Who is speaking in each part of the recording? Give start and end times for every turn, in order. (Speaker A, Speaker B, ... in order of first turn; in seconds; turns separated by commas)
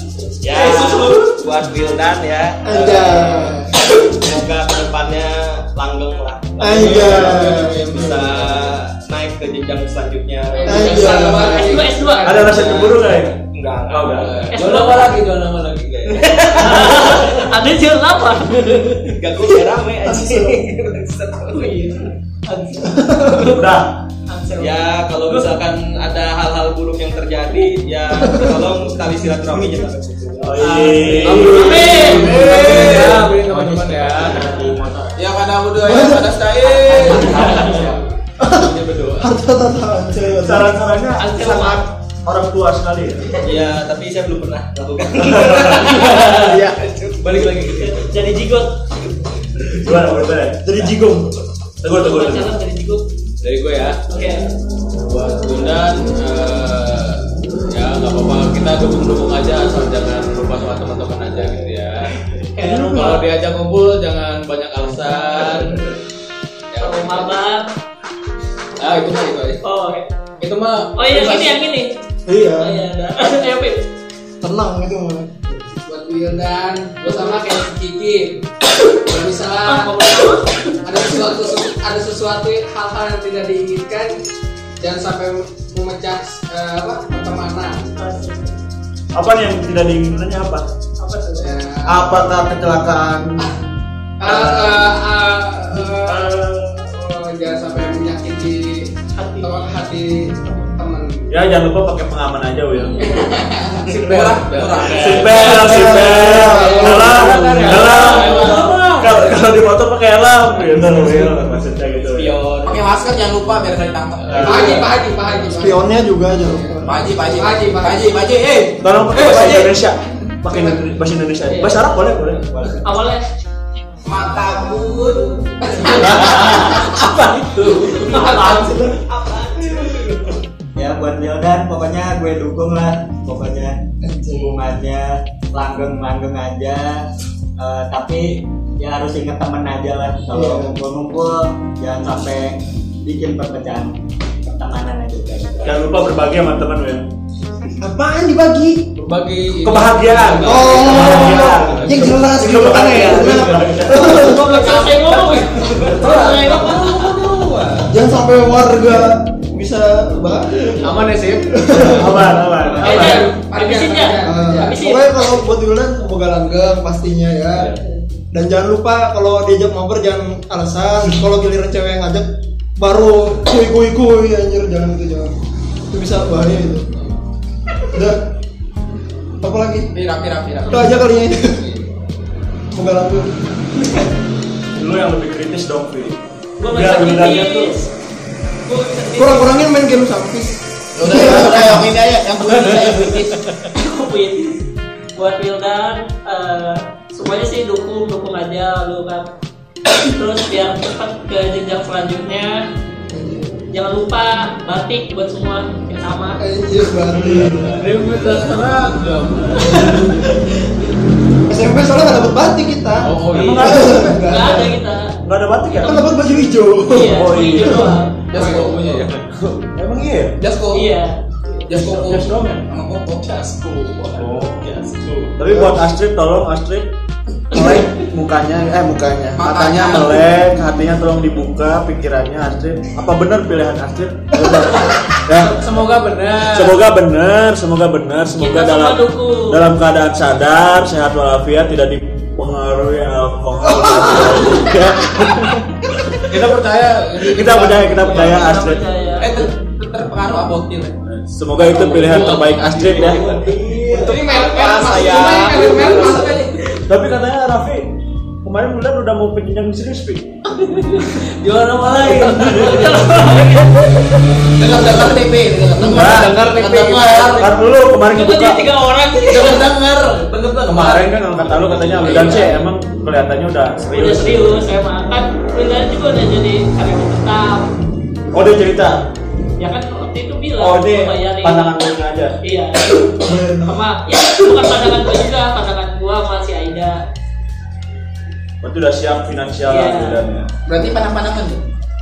Speaker A: 0.4-11.5, Speaker B: 2.6-3.8, Speaker B: 6.6-8.3, Speaker C: 10.5-12.9, Speaker B: 10.7-11.7, Speaker D: 10.9-12.6, Speaker E: 12.2-13.4, Speaker A: 13.5-14.6, Speaker E: 13.9-14.3, Speaker D: 14.5-15.2, Speaker F: 14.5-17.0, Speaker A: 16.1-17.3, Speaker D: 16.5-19.1, Speaker A: 19.1-21.8, Speaker B: 20.0-20.6, Speaker D: 21.5-23.5, Speaker B: 22.8-23.6, Speaker E: 23.4-24.0, Speaker D: 24.3-24.8, Speaker A: 24.6-31.4, Speaker B: 28.2-28.5, Speaker E: 30.4-33.0, Speaker D: 30.6-32.4, Speaker F: 30.7-34.7, Speaker G: 31.3-32.1, Speaker A: 32.2-33.3, Speaker H: 32.3-35.2, Speaker G: 35.1-37.9, Speaker B: 35.8-36.3, Speaker H: 36.6-38.0, Speaker F: 37.2-37.4, Speaker B: 38.4-40.8, Speaker F: 38.5-39.3, Speaker E: 40.3-43.3, Speaker D: 41.2-41.8, Speaker A: 43.4-47.9, Speaker E: 45.2-45.9, Speaker F: 45.6-46.6, Speaker F: 47.2-47.9, Speaker D: 47.7-48.8, Speaker E: 49.8-52.5, Speaker B: 50.6-51.2, Speaker D: 51.9-53.0, Speaker F: 53.4-54.0, Speaker D: 54.1-54.5, Speaker F: 55.0-57.2, Speaker F: 57.7-62.1, Speaker D: 62.5-63.3, Speaker F: 62.6-65.9, Speaker F: 66.7-67.4, Speaker D: 66.8-67.7, Speaker F: 68.8-69.6, Speaker D: 69.6-70.1, Speaker F: 70.4-71.5, Speaker D: 70.9-71.9, Speaker B: 72.3-72.8, Speaker D: 72.6-73.8, Speaker B: 74.4-75.6, Speaker C: 75.8-80.2, Speaker D: 79.6-80.7, Speaker C: 80.8-84.2, Speaker C: 84.8-87.9, Speaker D: 87.9-88.5, Speaker E: 89.1-90.7, Speaker D: 91.0-91.5, Speaker C: 91.4-92.0, Speaker E: 91.8-93.4, Speaker C: 94.2-98.9, Speaker E: 94.2-94.7, Speaker D: 99.2-99.6, Speaker C: 99.4-101.3, Speaker E: 101.3-103.3, Speaker C: 103.1-103.9, Speaker G: 103.8-105.6, Speaker F: 104.0-109.2, Speaker A: 104.8-105.2, Speaker E: 104.9-112.4, Speaker B: 105.4-107.3, Speaker D: 107.4-108.7, Speaker A: 112.1-112.9, Speaker G: 112.6-114.8, Speaker F: 114.2-114.9, Speaker E: 114.3-114.8, Speaker C: 114.4-115.9, Speaker B: 115.5-117.0, Speaker G: 116.8-119.7, Speaker C: 117.3-118.1, Speaker E: 118.8-122.8, Speaker C: 120.5-120.8, Speaker D: 121.5-121.8, Speaker D: 122.8-123.2, Speaker G: 124.0-126.5, Speaker C: 125.6-126.8, Speaker E: 125.9-128.1, Speaker D: 128.0-128.9, Speaker C: 128.0-128.8, Speaker A: 128.1-130.3, Speaker H: 130.7-133.8, Speaker B: 134.0-134.6, Speaker H: 134.3-137.1, Speaker H: 137.6-145.8, Speaker B: 140.3-140.8, Speaker E: 145.6-147.1, Speaker B: 147.8-148.9, Speaker F: 149.0-152.1, Speaker G: 149.0-150.8, Speaker E: 149.6-154.4, Speaker B: 150.4-154.7, Speaker D: 153.9-157.0, Speaker C: 154.2-156.0, Speaker E: 155.9-157.3, Speaker F: 156.9-157.4, Speaker B: 157.9-162.4, Speaker E: 160.8-163.3, Speaker F: 160.8-161.2, Speaker D: 162.8-165.4, Speaker C: 162.8-164.8, Speaker B: 164.2-167.7, Speaker E: 167.5-167.8, Speaker B: 168.3-175.3, Speaker B: 175.9-176.9, Speaker B: 177.9-178.2, Speaker B: 179.4-179.9, Speaker G: 179.9-180.9, Speaker B: 180.7-181.7, Speaker B: 182.7-183.3, Speaker E: 184.7-187.7, Speaker D: 186.6-187.9, Speaker D: 188.6-189.6, Speaker B: 189.1-191.7, Speaker G: 190.9-193.3, Speaker F: 192.8-193.1, Speaker D: 193.7-199.3, Speaker D: 200.0-202.7, Speaker B: 203.1-203.5, Speaker D: 203.7-206.4, Speaker B: 206.4-207.7, Speaker F: 207.6-210.3, Speaker D: 209.6-210.3, Speaker B: 211.5-214.7, Speaker F: 213.0-213.7, Speaker E: 213.3-214.5, Speaker D: 214.0-215.2, Speaker E: 215.2-216.1, Speaker D: 215.7-216.1, Speaker B: 215.8-218.0, Speaker D: 216.9-218.2, Speaker E: 216.9-218.0, Speaker G: 218.3-219.1, Speaker F: 218.3-219.1, Speaker E: 219.1-220.3, Speaker G: 220.4-220.9, Speaker D: 220.7-221.2, Speaker G: 221.7-223.3, Speaker E: 221.7-222.6, Speaker A: 223.2-225.3, Speaker E: 224.2-224.7, Speaker E: 225.3-226.9, Speaker B: 225.5-225.8, Speaker E: 227.5-235.6, Speaker G: 229.4-230.2, Speaker F: 234.8-236.8, Speaker E: 236.4-245.7, Speaker D: 238.4-239.6, Speaker F: 246.3-248.5, Speaker E: 247.2-248.8, Speaker D: 248.1-249.4, Speaker G: 249.2-250.9, Speaker E: 251.1-253.4, Speaker F: 251.6-254.2, Speaker G: 251.7-253.1, Speaker A: 252.2-256.5, Speaker C: 253.9-256.5, Speaker E: 256.9-257.9, Speaker E: 258.4-260.2, Speaker F: 260.7-263.3, Speaker E: 261.9-263.0, Speaker D: 261.9-263.9, Speaker G: 264.6-267.0, Speaker F: 264.6-267.5, Speaker E: 265.8-268.6, Speaker D: 268.1-269.7, Speaker F: 269.3-272.6, Speaker E: 270.6-274.7, Speaker D: 272.0-272.6, Speaker D: 273.9-277.7, Speaker E: 278.3-279.0, Speaker D: 279.6-281.7, Speaker E: 280.6-282.4, Speaker D: 282.4-287.0, Speaker B: 283.2-283.8, Speaker E: 288.6-290.5, Speaker D: 289.7-290.2, Speaker G: 290.6-291.6